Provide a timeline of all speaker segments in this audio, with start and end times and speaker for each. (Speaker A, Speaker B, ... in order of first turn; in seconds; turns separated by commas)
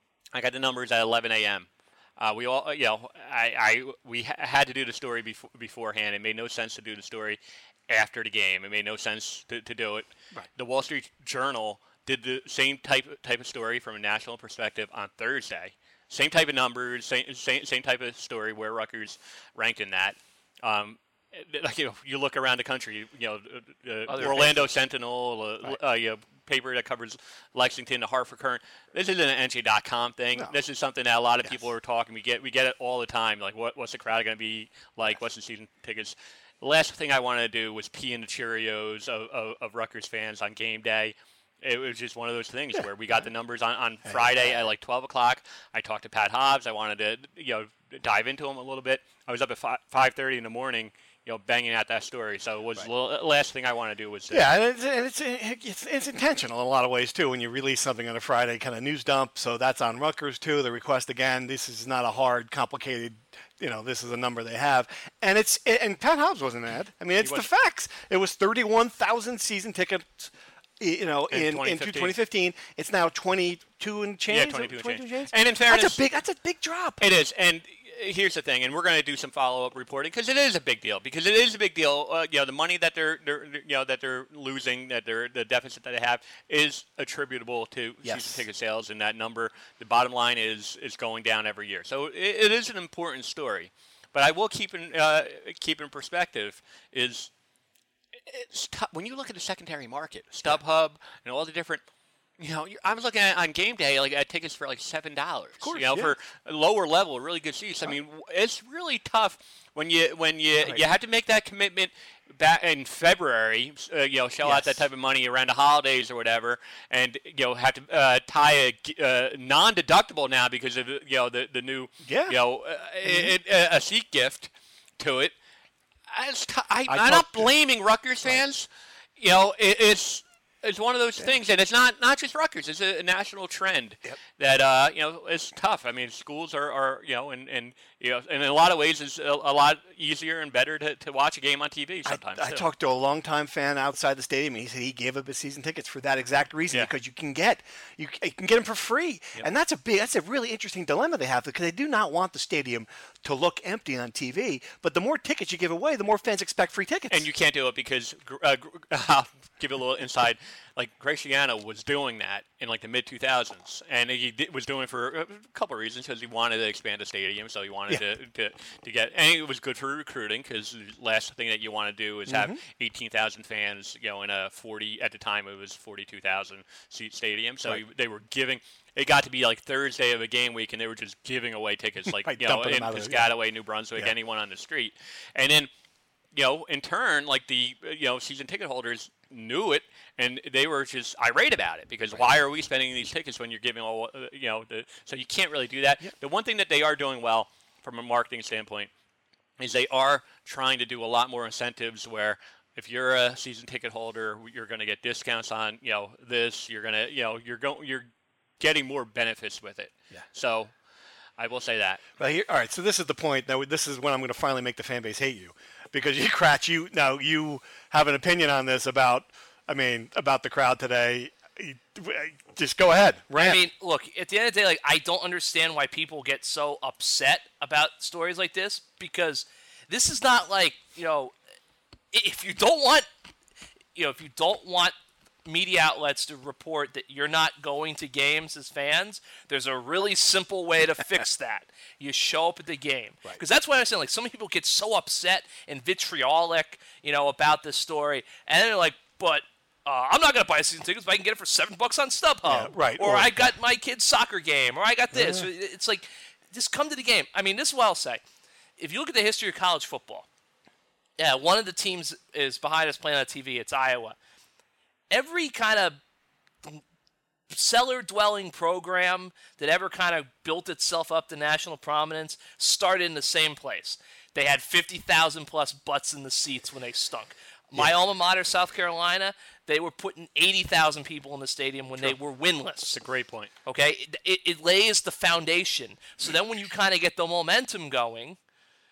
Speaker A: 0.3-54.5, Speaker B: 24.1-24.6, Speaker C: 42.8-43.2, Speaker C: 44.0-44.7, Speaker C: 54.3-77.0, Speaker A: 67.2-67.5, Speaker A: 71.3-72.2, Speaker A: 74.3-76.0, Speaker A: 77.0-97.3, Speaker C: 88.0-88.4, Speaker A: 98.2-101.8, Speaker A: 102.4-125.3, Speaker C: 105.6-106.1, Speaker C: 114.4-114.8, Speaker C: 122.0-122.4, Speaker C: 123.0-123.3, Speaker A: 126.1-128.7, Speaker C: 126.9-127.5, Speaker A: 129.2-142.6, Speaker C: 142.1-157.3, Speaker A: 157.1-185.7, Speaker C: 172.3-172.6, Speaker C: 182.2-183.3, Speaker A: 186.3-198.9, Speaker A: 199.6-208.1, Speaker A: 208.6-210.7, Speaker A: 211.4-212.0, Speaker C: 212.2-223.6, Speaker B: 223.4-231.3, Speaker B: 232.1-233.1, Speaker B: 233.9-234.9, Speaker B: 235.4-258.2, Speaker C: 252.4-253.5, Speaker C: 255.1-255.5, Speaker B: 258.8-260.3, Speaker B: 261.2-264.2, Speaker B: 265.1-266.0, Speaker B: 267.5-283.0, Speaker A: 282.8-283.5, Speaker B: 283.6-288.4